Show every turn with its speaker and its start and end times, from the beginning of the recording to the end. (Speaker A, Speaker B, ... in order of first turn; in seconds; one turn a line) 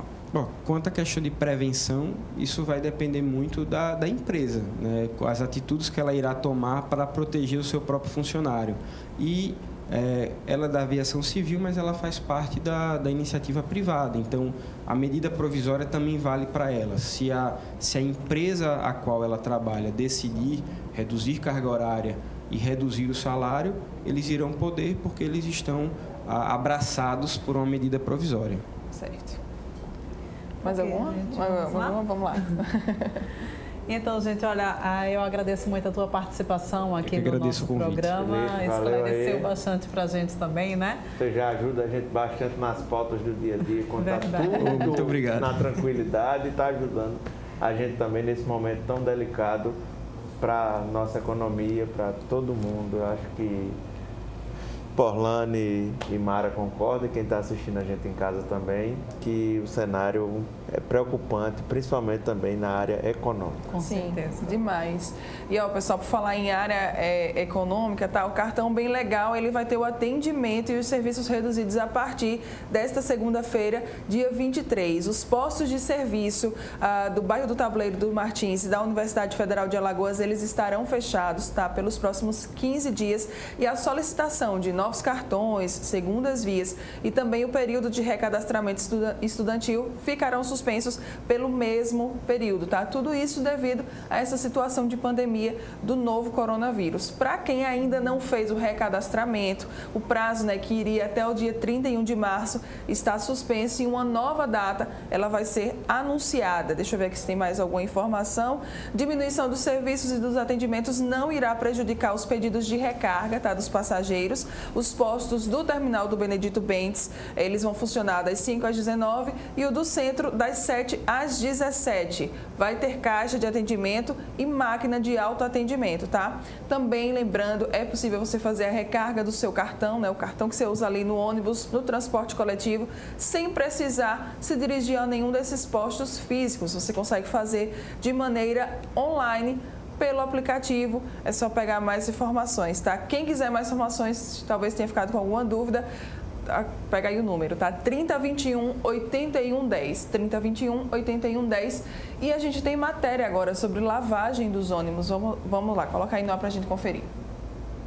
Speaker A: 0.3-28.6
Speaker B: 28.9-29.4
Speaker B: 30.6-33.2
Speaker C: 30.6-32.6
Speaker C: 33.9-41.0
Speaker A: 37.0-38.1
Speaker D: 38.1-39.5
Speaker D: 41.2-49.8
Speaker C: 44.0-44.9
Speaker A: 44.6-45.6
Speaker D: 50.4-53.8
Speaker D: 54.9-63.7
Speaker C: 63.7-64.5
Speaker B: 63.8-145.8
Speaker B: 146.4-157.1